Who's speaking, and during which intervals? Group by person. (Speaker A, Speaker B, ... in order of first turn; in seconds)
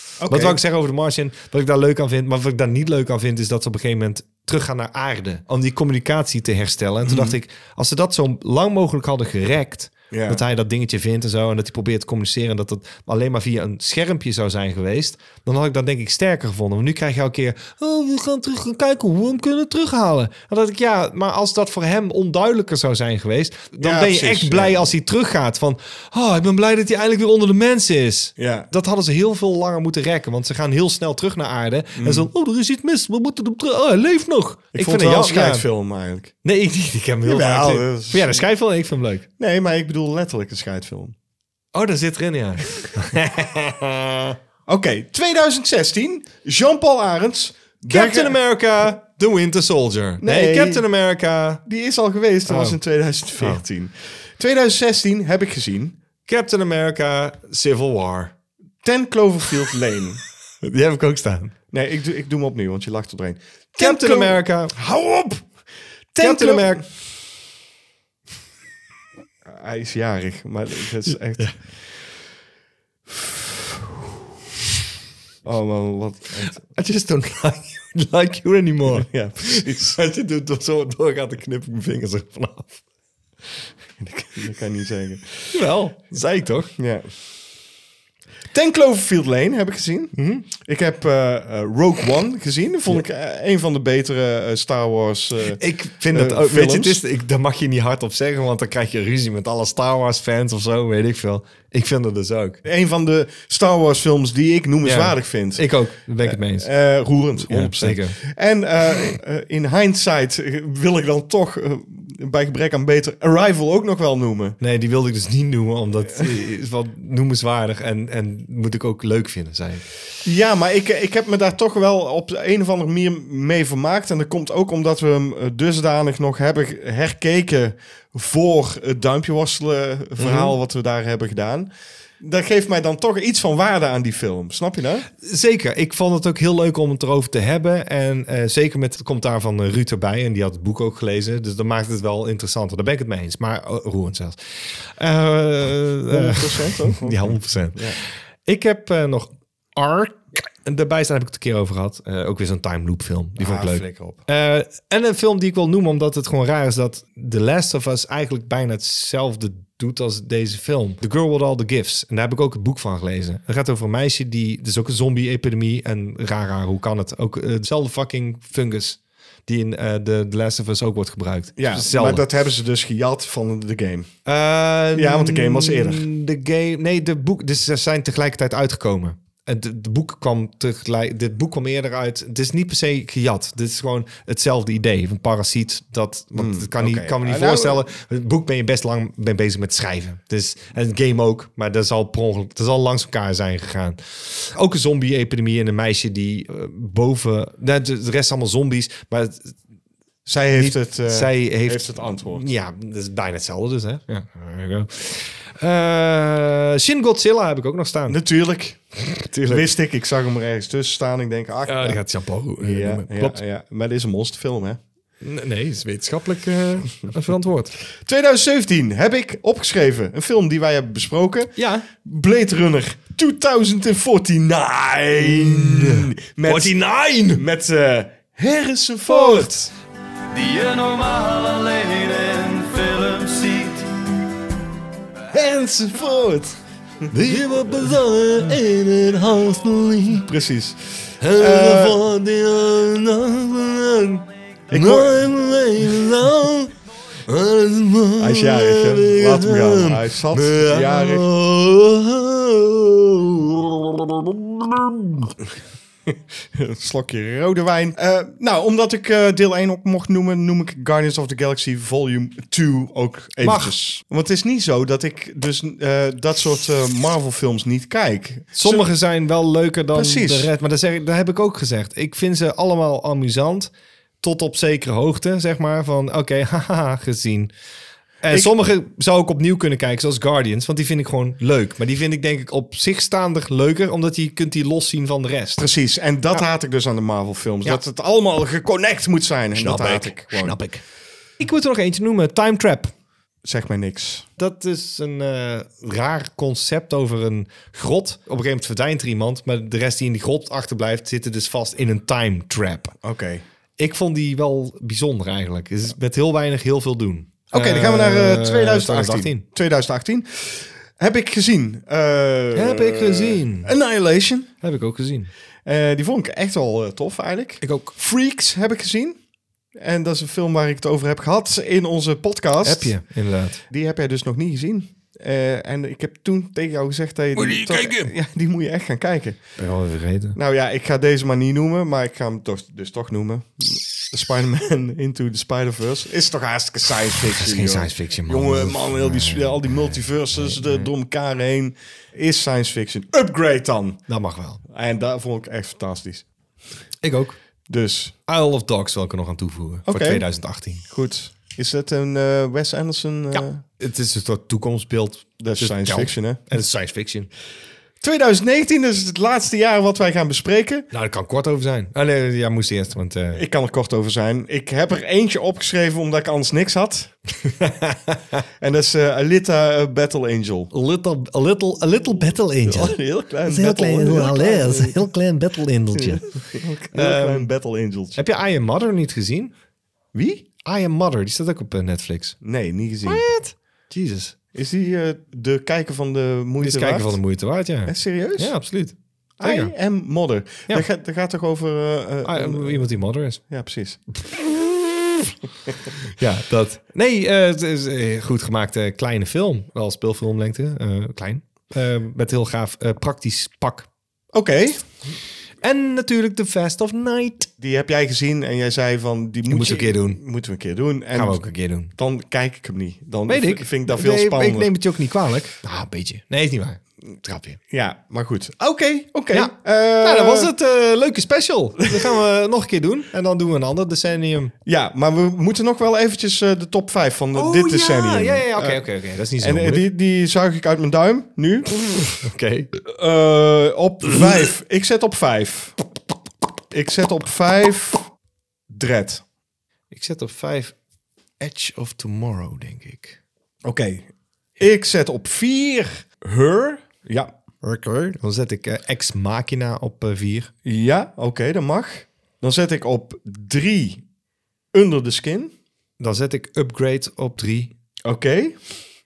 Speaker A: 0.2-0.6, 7.1-7.3, 10.1-10.4, 23.8-24.9, 28.4-28.7, 32.0-32.3, 34.8-36.4, 37.2-38.4, 39.4-41.1, 44.7-48.4, 50.2-50.8, 51.7-56.0, 58.8-60.2, 61.7-65.5, 66.1-66.8, 69.5-71.5, 75.5-76.6, 78.9-80.0, 84.0-85.5, 86.8-87.1, 88.5-97.0, 102.6-105.7, 106.2-114.6, 120.2-135.1, 146.1-148.0, 153.4-154.2, 171.6-174.1, 174.9-176.1, 186.3-187.8, 200.3-202.4, 208.1-208.8, 209.5-212.0, 212.6-214.8, 218.0-229.7, 235.3-237.4, 240.2-242.0, 244.7-245.2, 248.2-251.3, 256.1-268.9, 269.9-270.5, 285.6-290.6, 293.4-294.3, 303.0-303.4, 307.5-314.5, 315.6-319.2, 319.8-323.0, 323.7-329.4, 330.4-344.0, 344.7-346.3, 347.7-348.2, 349.9-350.3, 350.9-353.6, 355.4-356.4, 358.0-360.9, 363.3-367.1, 368.6-370.7, 372.6-375.1, 375.9-378.2, 380.1-380.5, 382.4-383.2, 384.5-387.2, 387.9-388.5, 389.4-392.9, 393.4-394.0, 404.3-404.8, 407.6-414.7, 417.7-420.5, 424.7-428.8, 429.4-432.0, 432.9-435.8, 436.7-438.1, 438.7-439.2, 443.6-447.3, 450.6-454.0, 454.7-455.5, 458.1-458.6
Speaker B: 0.3-35.6, 36.4-39.3, 41.7-44.4, 47.9-51.6, 52.5-52.8, 53.4-53.6, 56.3-58.3, 60.6-61.5, 63.8-64.8, 66.2-66.8, 71.1-71.5, 76.4-82.8, 85.5-86.7, 90.2-90.5, 95.5-102.6, 104.8-106.7, 107.4-108.2, 114.6-119.9, 130.2-130.6, 135.2-172.2, 174.3-199.5, 200.6-208.2, 209.0-209.7, 211.7-213.4, 215.2-217.7, 221.6-221.9, 225.2-227.4, 229.1-229.7, 237.1-240.3, 241.2-246.7, 247.3-255.3, 263.4-264.0, 268.6-273.7, 274.2-277.5, 278.2-285.7, 289.5-290.8, 291.4-292.9, 294.4-302.9, 303.8-309.4, 312.6-313.7, 314.6-315.3, 317.6-317.9, 322.6-323.6, 327.4-328.1, 329.6-330.4, 337.3-340.9, 344.1-344.6, 347.0-347.4, 348.3-350.8, 353.3-357.3, 360.9-363.4, 367.5-368.2, 370.7-377.5, 378.2-379.5, 380.6-382.4, 383.1-384.4, 386.6-389.7, 392.2-393.4, 394.3-395.0, 396.1-403.9, 405.6-407.5, 409.5-410.2, 411.1-411.9, 413.3-417.6, 419.3-424.5, 427.3-429.9, 432.2-432.7, 439.9-440.8, 441.4-443.2, 447.6-450.5, 456.0-457.7
Speaker C: 230.3-233.9